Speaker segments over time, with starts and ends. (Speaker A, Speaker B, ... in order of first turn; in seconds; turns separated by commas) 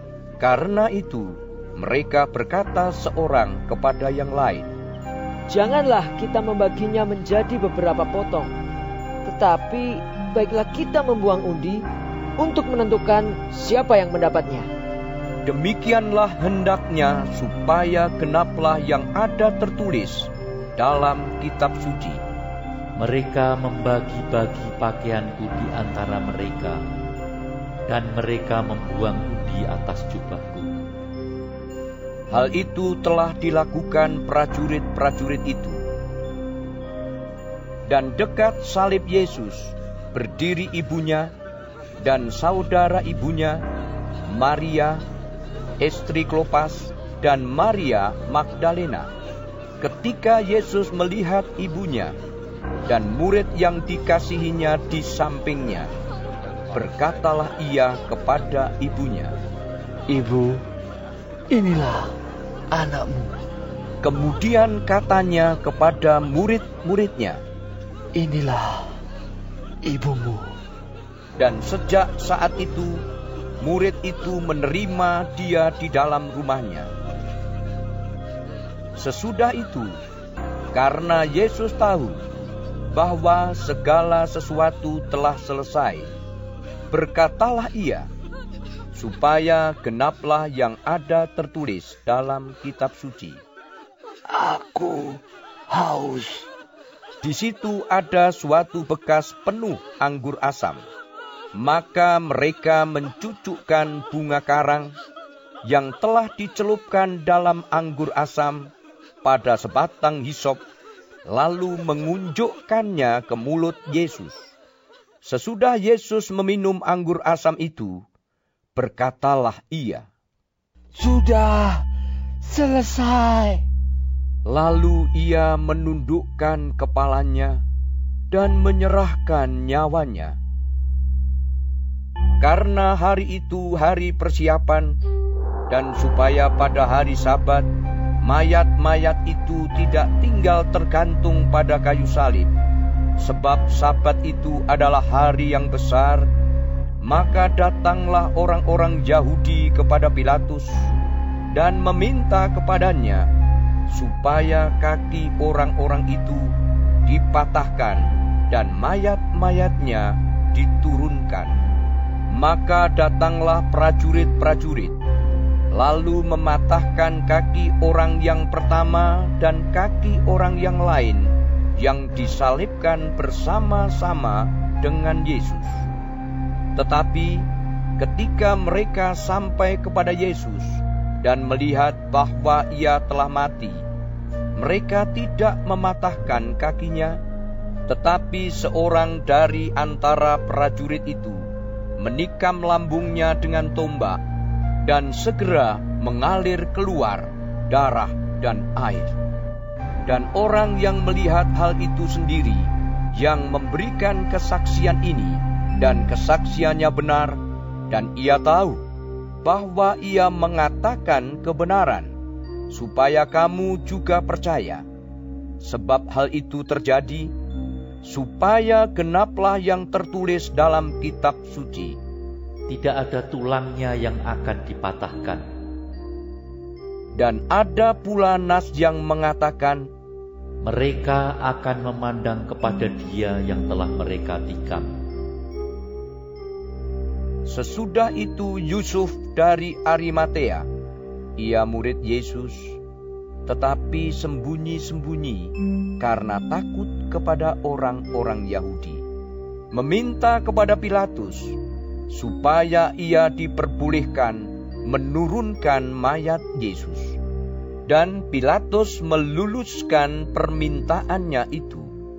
Speaker A: 0.4-4.7, Speaker B: 5.5-8.5, Speaker B: 9.3-11.8, Speaker B: 12.4-14.7, Speaker A: 15.5-22.2, Speaker C: 23.0-26.8, Speaker C: 27.9-30.7, Speaker A: 32.3-35.8, Speaker A: 37.9-41.3, Speaker A: 42.0-43.6, Speaker A: 44.3-45.0, Speaker A: 45.8-49.1, Speaker A: 49.8-52.2, Speaker A: 52.9-55.9, Speaker A: 56.7-59.4, Speaker D: 60.1-60.6, Speaker D: 61.5-62.1, Speaker D: 62.7-63.4, Speaker A: 64.0-67.4, Speaker D: 68.2-68.9, Speaker D: 69.8-70.5, Speaker A: 71.4-73.0, Speaker A: 73.6-76.9, Speaker A: 79.0-80.0, Speaker A: 80.7-82.2, Speaker A: 82.9-86.1, Speaker A: 86.9-88.1, Speaker A: 88.9-93.4, Speaker D: 94.3-96.5, Speaker A: 97.2-100.9, Speaker A: 101.6-105.0, Speaker A: 105.7-108.7, Speaker A: 109.2-110.6, Speaker A: 111.3-114.5, Speaker A: 115.2-118.0, Speaker A: 118.8-120.1, Speaker D: 121.0-121.8, Speaker D: 122.4-123.6, Speaker A: 124.5-127.6, Speaker A: 128.3-130.4, Speaker A: 132.4-135.0, Speaker A: 135.7-137.7, Speaker A: 138.2-142.6, Speaker A: 143.2-146.3, Speaker A: 147.0-150.9, Speaker A: 151.5-153.3, Speaker A: 153.9-156.5, Speaker A: 157.1-161.6, Speaker A: 162.3-164.9, Speaker A: 165.7-175.9, Speaker A: 176.8-177.5, Speaker A: 178.0-183.8, Speaker A: 184.6-187.2, Speaker A: 187.9-191.5, Speaker A: 192.0-194.2, Speaker A: 194.8-199.1, Speaker A: 200.1-207.4, Speaker A: 207.9-208.8, Speaker A: 209.4-212.1, Speaker A: 212.7-214.8, Speaker A: 215.6-217.3, Speaker A: 218.1-222.0, Speaker C: 222.7-225.4, Speaker A: 227.2-229.9, Speaker C: 230.6-235.0, Speaker A: 237.5-240.7, Speaker A: 241.4-242.8, Speaker A: 243.5-249.0, Speaker A: 249.7-251.6, Speaker A: 252.1-257.2, Speaker A: 257.9-261.9